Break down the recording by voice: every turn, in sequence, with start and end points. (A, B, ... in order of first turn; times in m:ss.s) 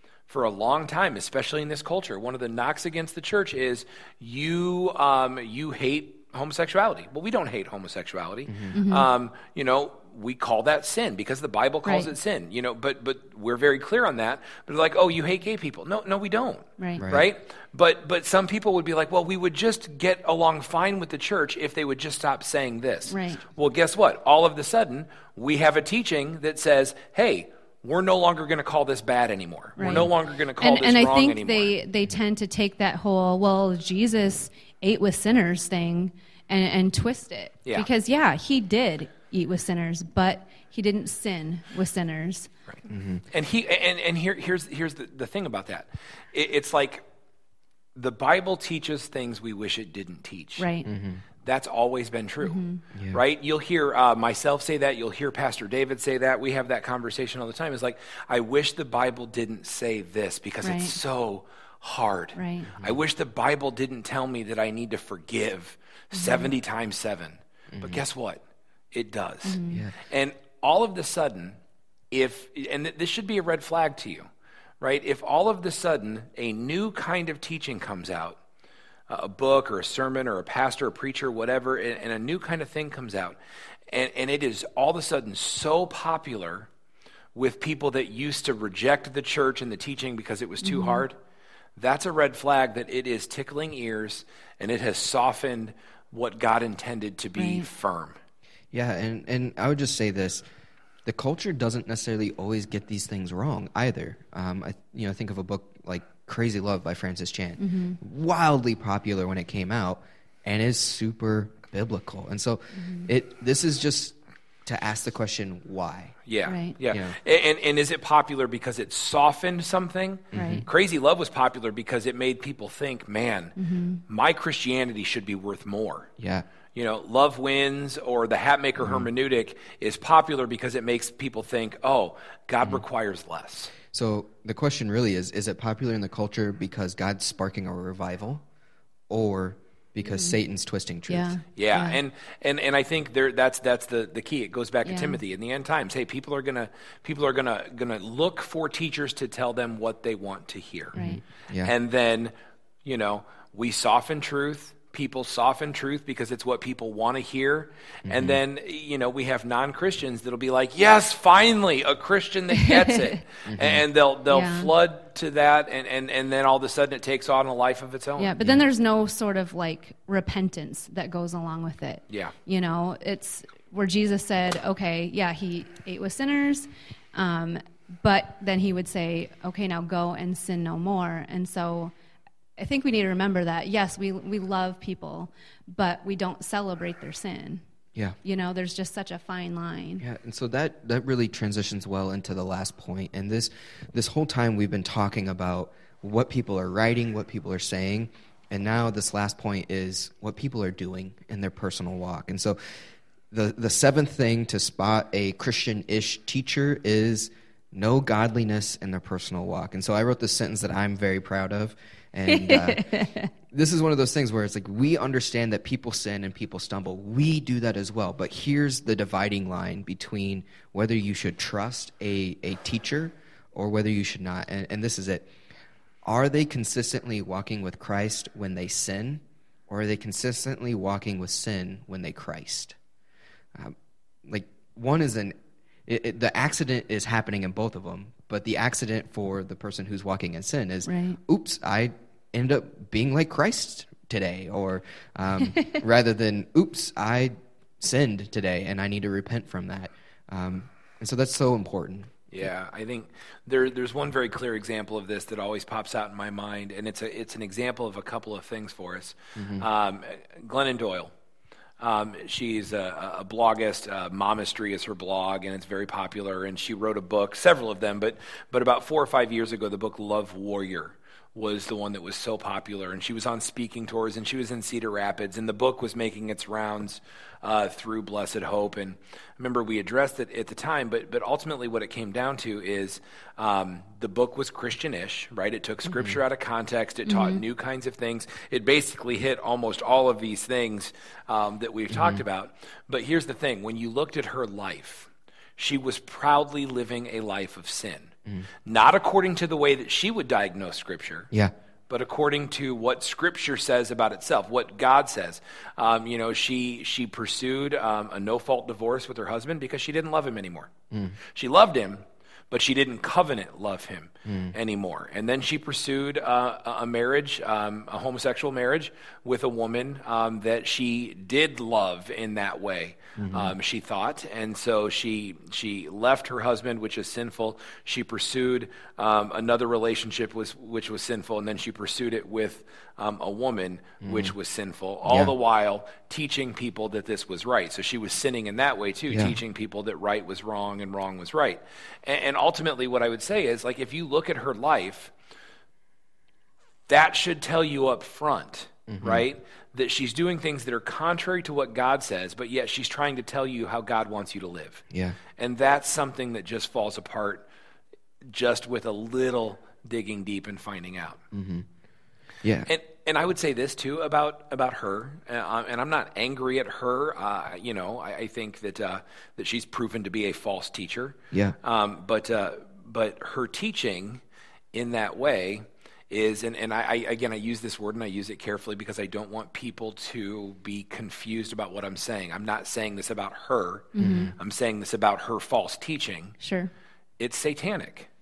0:00.3-0:31.8 A
0:08.5-0:08.7 B
0:08.7-0:09.1 C
0:11.8-0:12.1 C
0:16.8-0:17.0 C
0:17.0-0:17.3 B
0:23.1-0:23.4 C
0:29.8-0:42.5 C
0:42.9-0:43.2 B
0:43.3-0:47.0 A
0:47.9-0:50.7 A
0:50.6-0:50.9 C
0:50.8-0:51.2 B
0:51.4-0:52.6 A
0:52.4-0:52.8 C
0:52.9-0:53.2 B
0:53.1-1:11.6 A
1:00.6-1:01.0 C
1:02.4-1:02.7 C
1:02.7-1:03.0 B
1:06.1-1:06.5 C
1:07.7-1:08.0 B
1:09.4-1:09.8 C
1:09.7-1:09.9 B
1:12.1-1:14.3 A
1:14.8-1:18.4 A
1:19.1-1:23.4 A
1:23.9-1:26.7 A
1:27.3-1:31.2 A
1:30.6-1:31.0 C
1:31.8-1:38.2 A
1:37.4-1:37.6 C
1:38.7-1:40.4 B
1:41.0-1:56.1 B
1:47.6-1:48.0 C
1:52.7-1:53.1 C
1:56.2-2:03.6 A
1:56.4-1:56.8 C
1:56.9-1:57.2 B
2:00.3-2:00.6 B
2:00.3-2:00.6 C
2:03.6-2:04.0 C
2:04.1-2:06.1 A
2:06.2-2:06.4 B
2:06.7-2:13.7 A
2:08.8-2:09.1 B
2:13.9-2:18.4 B
2:19.1-2:21.4 B
2:20.1-2:20.4 C
2:21.1-2:22.0 C
2:21.6-2:31.0 A
2:24.8-2:25.2 C
2:30.9-2:31.7 B
2:30.9-2:31.2 C
2:31.6-2:32.3 A
2:32.8-2:48.4 A
2:38.0-2:38.4 B
2:42.6-2:43.1 C
2:43.4-2:43.8 B
2:44.3-2:44.7 C
2:48.2-3:01.9 C
3:02.6-3:07.6 C
3:08.2-3:10.0 C
3:10.0-3:22.6 B
3:23.3-3:32.9 B
3:32.3-3:33.3 C
3:33.5-3:45.3 B
3:46.0-3:52.8 B
3:54.3-3:55.4 B
3:55.9-4:12.1 B
4:00.9-4:01.2 C
4:12.3-4:21.1 A
4:19.4-4:19.6 B
4:21.8-4:58.1 A
4:45.9-4:46.2 B
4:47.0-4:47.4 C
4:51.9-4:52.2 B
4:58.6-5:01.3 A
5:01.9-5:10.7 A
5:10.9-5:11.2 B
5:11.2-5:45.1 A
5:14.3-5:14.5 B
5:23.2-5:23.5 B
5:34.0-5:34.3 B
5:35.0-5:35.3 B
5:39.1-5:39.4 B
5:46.9-5:57.5 A
5:48.9-5:49.3 B
5:54.9-5:55.2 B
5:58.3-6:01.2 A
6:01.3-6:01.7 B
6:02.4-6:02.7 B
6:02.7-6:26.4 A
6:24.0-6:24.3 C
6:24.0-6:24.3 B
6:26.4-6:26.7 C
6:27.2-6:28.1 A